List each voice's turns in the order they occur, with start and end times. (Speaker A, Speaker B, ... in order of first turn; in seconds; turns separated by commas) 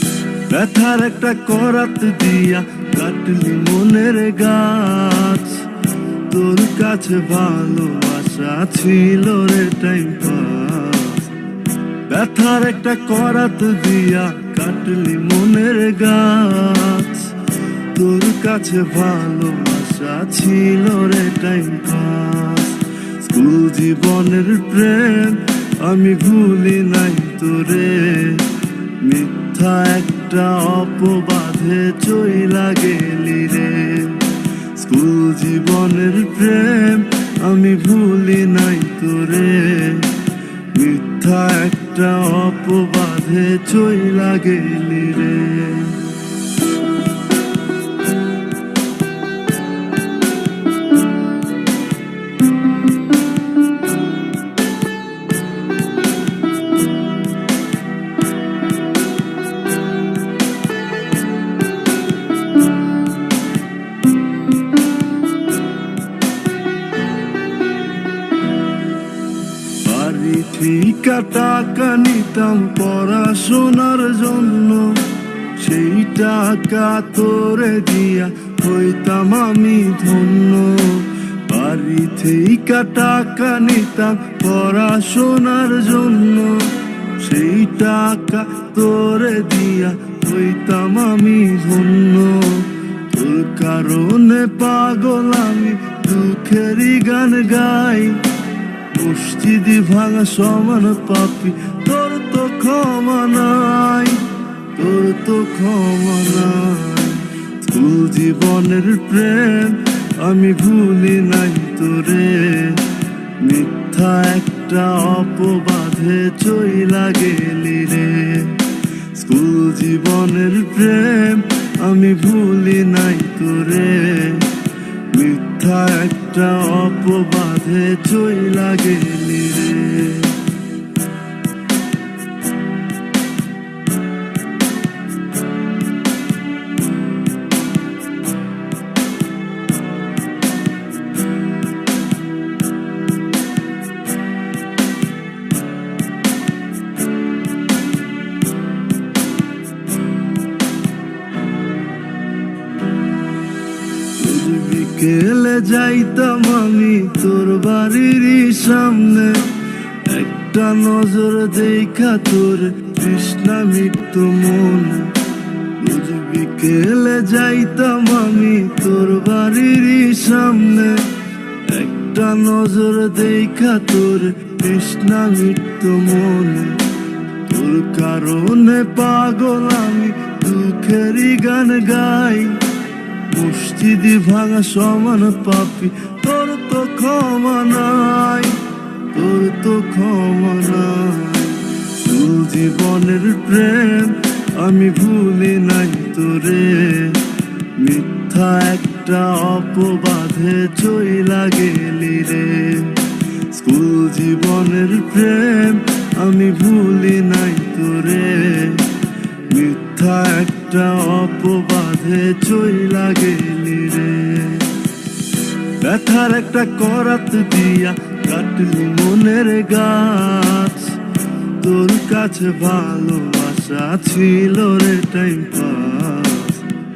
Speaker A: 0.3-11.3, Speaker A: 12.0-46.1, Speaker A: 69.8-98.3, Speaker A: 98.9-130.5, Speaker A: 154.1-182.7, Speaker A: 183.2-214.9, Speaker A: 215.7-221.0, Speaker A: 221.6-226.7